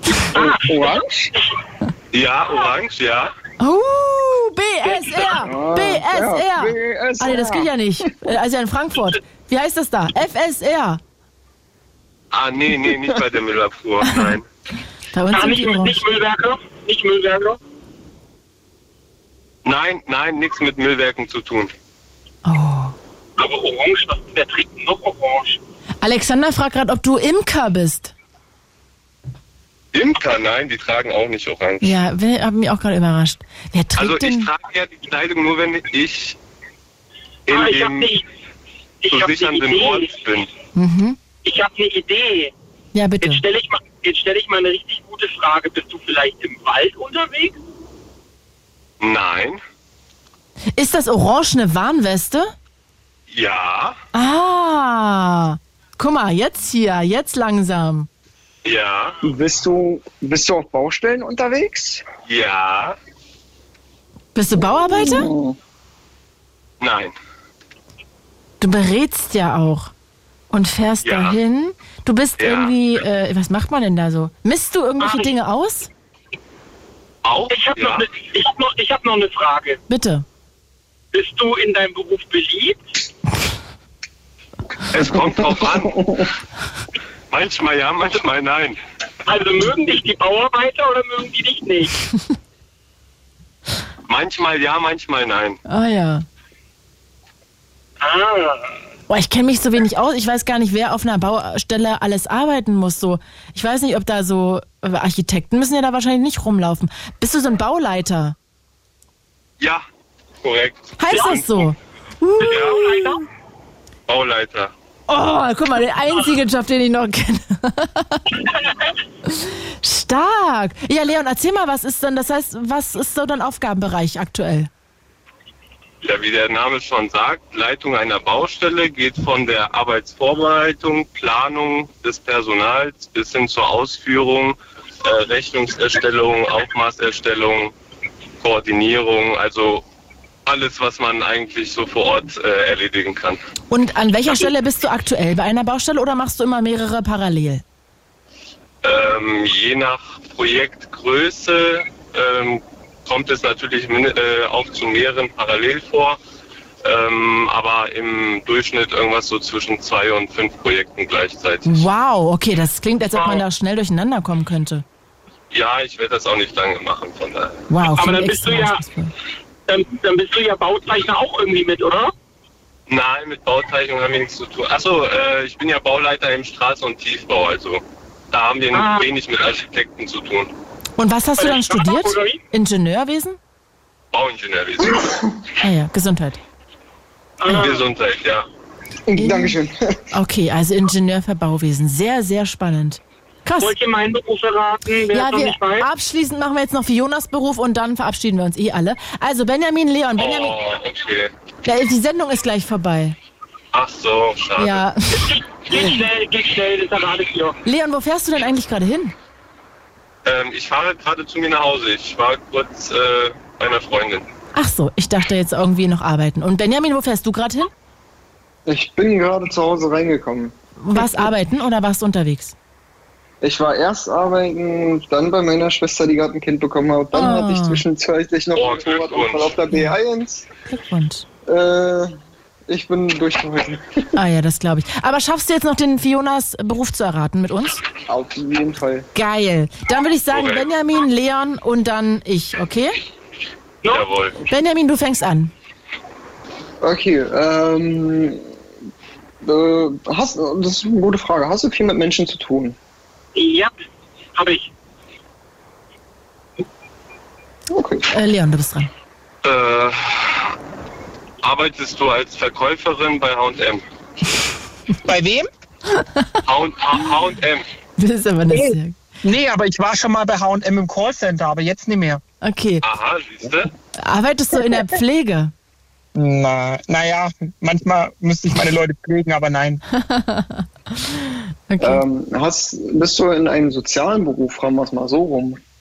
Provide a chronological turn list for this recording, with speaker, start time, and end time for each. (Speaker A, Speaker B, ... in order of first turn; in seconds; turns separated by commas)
Speaker A: 0.3-1.3, Speaker B: 0.3-1.5, Speaker C: 2.1-3.3, Speaker D: 3.6-11.0, Speaker A: 5.3-8.3, Speaker C: 12.3-14.5, Speaker A: 12.8-13.2, Speaker D: 15.1-16.0, Speaker B: 15.3-17.6, Speaker C: 19.6-21.7, Speaker D: 22.4-22.9, Speaker B: 23.4-25.6, Speaker D: 26.0-28.1, Speaker C: 29.9-32.0, Speaker D: 31.8-34.5, Speaker C: 34.0-36.4, Speaker C: 37.5-38.1, Speaker B: 37.5-38.3, Speaker B: 39.0-40.2, Speaker C: 39.1-40.5, Speaker D: 40.7-41.2, Speaker B: 41.4-42.5, Speaker D: 42.9-43.4, Speaker B: 43.2-47.6, Speaker C: 49.0-49.6, Speaker D: 50.8-52.5, Speaker C: 53.3-54.0, Speaker D: 54.1-58.1, Speaker C: 58.6-59.2, Speaker A: 59.2-62.0, Speaker C: 62.3-63.0, Speaker D: 64.3-65.3, Speaker A: 64.5-65.6, Speaker C: 66.8-67.2, Speaker D: 68.6-69.9, Speaker D: 70.5-75.9, Speaker C: 71.0-71.4, Speaker C: 72.4-72.7, Speaker B: 75.0-75.3, Speaker C: 77.2-78.0, Speaker B: 77.5-79.8, Speaker D: 79.9-80.2, Speaker B: 81.1-82.8, Speaker C: 84.9-86.0, Speaker A: 84.9-86.3, Speaker C: 87.3-88.8, Speaker B: 89.3-91.9, Speaker C: 94.1-95.6, Speaker D: 95.7-96.2, Speaker B: 98.0-98.7, Speaker D: 99.1-108.4, Speaker C: 109.6-109.8, Speaker C: 110.4-111.7, Speaker D: 111.0-113.2, Speaker B: 112.4-113.2, Speaker C: 112.5-112.8, Speaker C: 114.1-114.7, Speaker D: 115.1-118.2, Speaker D: 119.3-124.7, Speaker C: 126.0-137.7, Speaker C: 138.4-139.8, Speaker C: 140.4-143.4, Speaker D: 143.7-147.6, Speaker C: 148.8-156.2, Speaker C: 156.8-161.9, Speaker D: 161.7-164.8, Speaker C: 165.5-167.7, Speaker D: 167.7-169.1, Speaker B: 167.9-168.8, Speaker B: 169.7-172.1, Speaker C: 172.9-180.5, Speaker B: 178.7-179.0, Speaker D: 181.0-183.4, Speaker B: 181.4-182.4, Speaker C: 184.1-185.1, Speaker D: 185.6-186.4, Speaker B: 187.4-187.8, Speaker C: 187.5-188.4, Speaker A: 189.1-190.0, Speaker D: 189.2-189.6, Speaker D: 190.1-193.8, Speaker B: 193.6-195.9, Speaker D: 195.1-200.6, Speaker C: 200.2-201.3, Speaker D: 201.7-203.2, Speaker C: 203.7-204.8, Speaker D: 204.6-205.3, Speaker B: 205.1-207.6, Speaker D: 207.7-209.2, Speaker C: 210.2-214.3, Speaker D: 214.6-217.7, Speaker A: 218.7-221.3, Speaker D: 220.8-222.6, Speaker A: 223.4-230.5, Speaker D: 227.1-227.8, Speaker C: 228.5-229.6, Speaker D: 230.7-231.3, Speaker A: 231.4-232.1, Speaker A: 232.7-234.0, Speaker D: 234.2-237.8, Speaker A: 238.1-239.1, Speaker D: 239.2-242.9, Speaker C: 240.3-240.7, Speaker C: 243.9-244.4, Speaker D: 244.5-245.5, Speaker A: 246.8-248.4, Speaker A: 249.4-252.8, Speaker B: 253.3-253.7, Speaker B: 254.3-254.7, Speaker A: 257.7-258.1, Speaker D: 258.1-258.9, Speaker C: 259.4-260.5, Speaker C: 261.4-263.8, Speaker E: 265.1-265.5, Speaker D: 265.9-266.3, Speaker C: 266.5-267.6, Speaker D: 268.0-269.0, Speaker E: 268.5-272.2, Speaker D: 272.4-272.8, Speaker C: 272.8-273.7, Speaker D: 274.0-275.5, Speaker E: 276.2-279.8, Speaker D: 279.9-282.0, Speaker A: 281.8-285.6